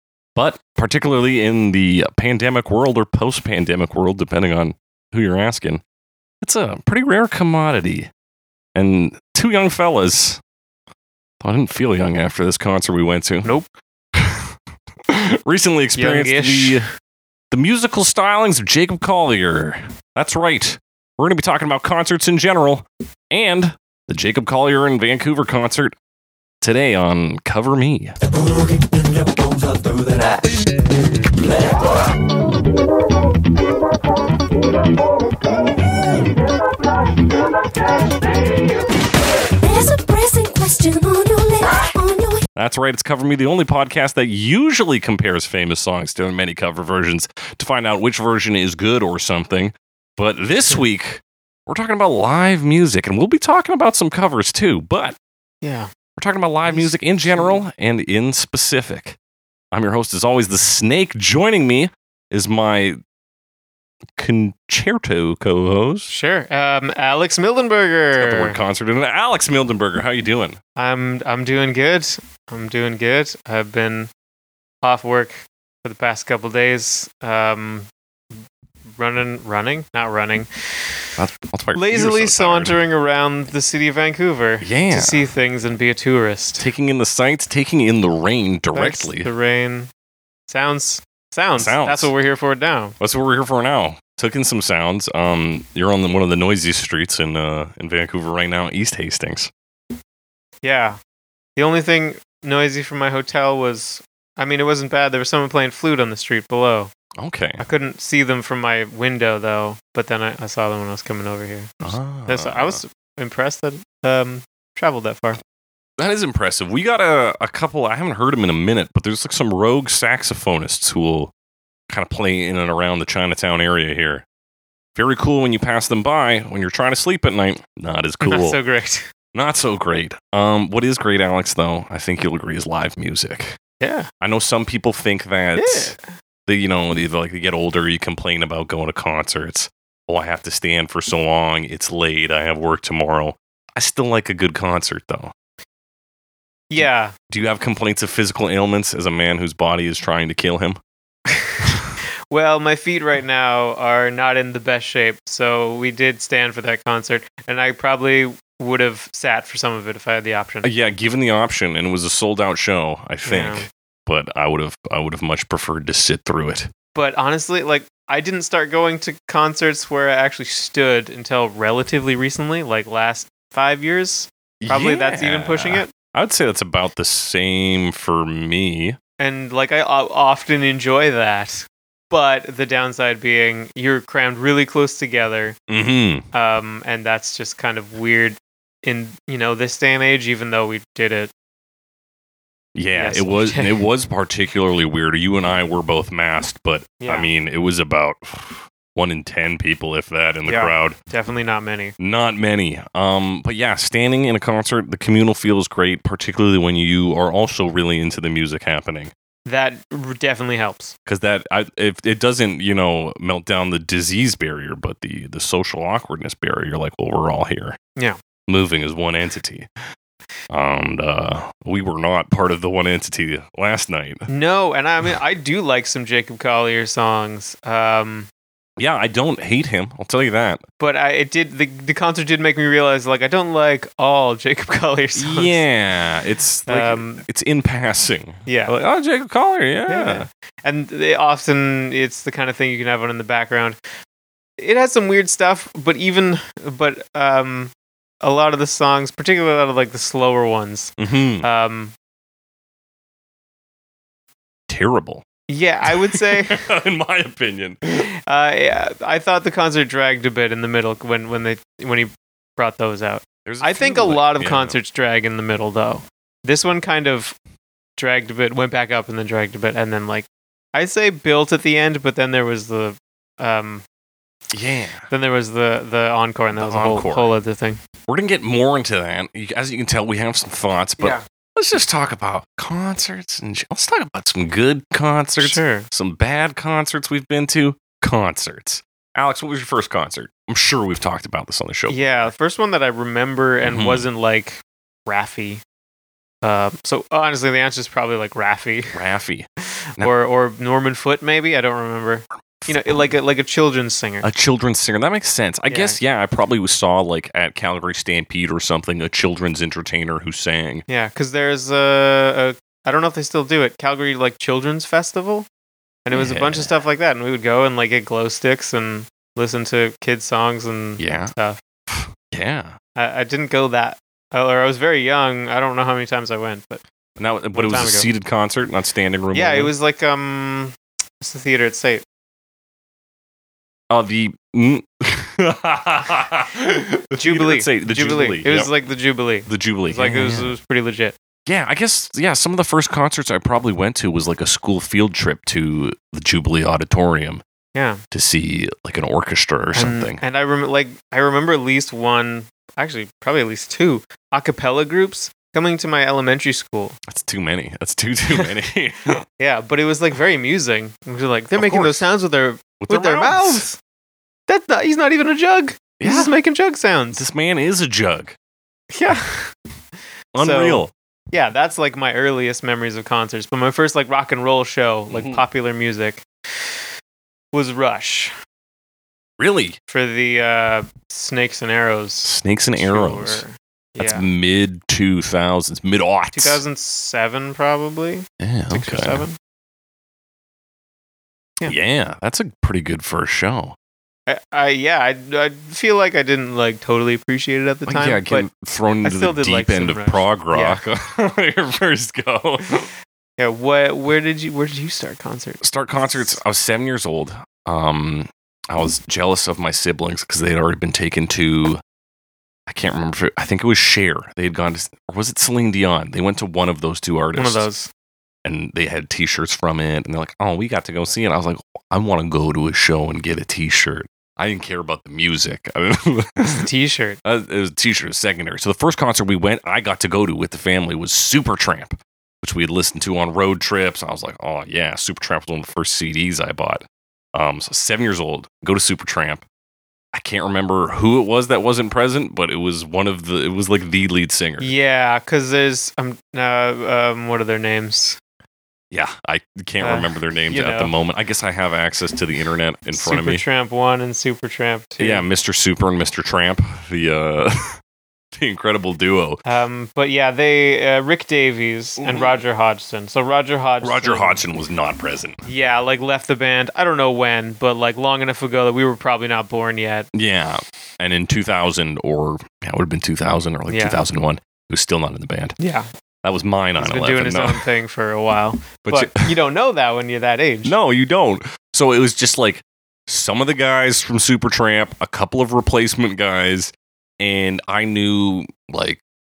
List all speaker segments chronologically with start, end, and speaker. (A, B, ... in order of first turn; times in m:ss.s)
0:00.4-0:05.8 A
0:06.4-0:08.1 A
0:08.8-0:10.4 A
0:11.4-0:13.5 A
0:13.4-0:13.7 B
0:14.2-0:14.5 A
0:15.1-0:16.9 A
0:16.0-0:16.9 B
0:17.5-0:25.9 A
0:26.6-0:28.2 A
0:39.6-0:42.4 C
0:42.6-0:55.2 A
0:55.6-0:55.9 B
0:56.2-0:59.2 A
0:56.7-0:57.6 B
0:59.7-1:03.0 A
1:04.2-1:06.1 A
1:06.1-1:08.6 B
1:08.2-1:10.6 A
1:10.8-1:14.1 B
1:14.8-1:17.9 B
1:19.0-1:21.1 B
1:21.2-1:22.8 A
1:21.8-1:26.7 B
1:24.6-1:25.3 A
1:26.6-1:29.3 A
1:28.7-1:29.9 B
1:30.5-1:33.0 B
1:31.6-1:32.1 A
1:33.0-1:39.5 A
1:40.6-1:41.0 B
1:41.6-1:46.9 B
1:47.2-1:47.6 A
1:47.6-1:55.4 B
1:51.8-1:52.8 A
1:56.0-2:01.3 A
2:01.9-2:04.2 A
2:05.0-2:08.6 A
2:08.2-2:09.1 B
2:09.3-2:13.6 A
2:13.8-2:14.1 B
2:14.2-2:16.0 A
2:15.6-2:16.0 B
2:16.5-2:25.3 A
2:26.7-2:27.1 B
2:26.8-2:30.8 A
2:32.3-2:40.7 B
2:40.6-2:46.7 A
2:43.3-2:43.7 B
2:47.0-2:55.9 B
2:54.6-2:59.0 A
2:59.2-3:05.6 B
3:05.7-3:06.3 A
3:06.3-3:11.3 B
3:12.8-3:21.0 A
3:13.0-3:13.8 B
3:17.0-3:17.3 B
3:20.5-3:21.9 B
3:22.0-3:29.1 A
3:29.5-3:31.0 B
3:31.1-3:37.8 A
3:38.5-3:39.7 A
3:40.5-3:44.3 A
3:44.3-3:48.3 B
3:48.8-3:50.6 A
3:50.8-3:55.6 B
3:55.2-4:00.3 A
3:56.7-3:57.2 B
3:58.5-3:58.7 B
3:59.9-4:03.8 B
4:04.6-4:11.9 B
4:11.0-4:11.5 A
4:14.7-4:15.2 A
4:15.5-4:16.6 B
4:15.8-4:18.1 A
4:18.1-4:27.4 B
4:23.5-4:24.8 A
4:28.0-4:33.8 B
4:34.5-4:35.1 A
4:35.1-4:37.8 B
4:36.5-4:37.3 A
4:38.1-4:52.3 A
4:45.4-4:45.9 B
4:51.9-4:55.6 B
4:53.6-4:54.0 A
4:56.4-4:59.0 B
4:58.9-4:59.5 A
5:00.0-5:04.3 B
5:02.6-5:03.1 A
5:04.2-5:10.8 A
5:05.7-5:06.0 B
5:10.9-5:15.5 B
5:16.1-5:21.6 B
5:16.1-5:16.8 A
5:21.0-5:21.3 A
5:21.9-5:22.8 A
5:23.0-5:26.8 B
5:27.2-5:29.7 A
5:27.5-5:28.1 B
5:29.3-5:32.0 B
5:33.9-5:38.7 A
5:37.2-5:41.2 B
5:39.5-5:40.5 A
5:41.5-5:47.4 A
5:47.7-5:48.0 B
5:48.1-5:50.2 A
5:49.7-5:57.0 B
5:57.1-5:59.2 A
5:59.4-6:03.8 B
6:01.6-6:02.0 A
6:02.8-6:03.7 A
6:04.5-6:07.2 B
6:06.0-6:06.3 A
6:07.1-6:08.4 A
6:08.9-6:09.5 B
6:10.4-6:10.9 A
6:10.4-6:16.7 B
6:15.1-6:15.4 A
6:17.5-6:18.3 B
6:19.4-6:19.8 A
6:19.9-6:24.3 B
6:22.2-6:23.4 A
6:24.0-6:26.6 A
6:26.3-6:29.4 B
6:28.4-6:29.2 A
6:31.7-6:33.8 A
6:34.3-6:38.5 B
6:37.9-6:42.9 A
6:39.0-6:40.8 B
6:43.4-6:46.4 B
6:45.6-6:51.8 A
6:52.7-6:57.7 A
6:57.4-6:57.9 B
6:58.4-7:06.7 A
7:06.6-7:07.2 B
7:07.2-7:19.4 A
7:20.1-7:24.7 A
7:24.6-7:28.2 B
7:28.9-7:33.4 A
7:29.8-7:30.9 B
7:33.0-7:35.3 B
7:35.0-7:37.8 A
7:38.3-7:39.4 A
7:39.4-7:44.4 B
7:42.0-7:42.4 A
7:43.8-7:45.4 A
7:45.4-7:50.1 B
7:50.1-7:55.6 A
7:53.7-7:54.0 B
7:55.6-7:55.9 B
7:56.2-7:57.7 A
7:56.8-8:00.7 B
7:58.8-7:59.4 A
8:00.6-8:09.0 A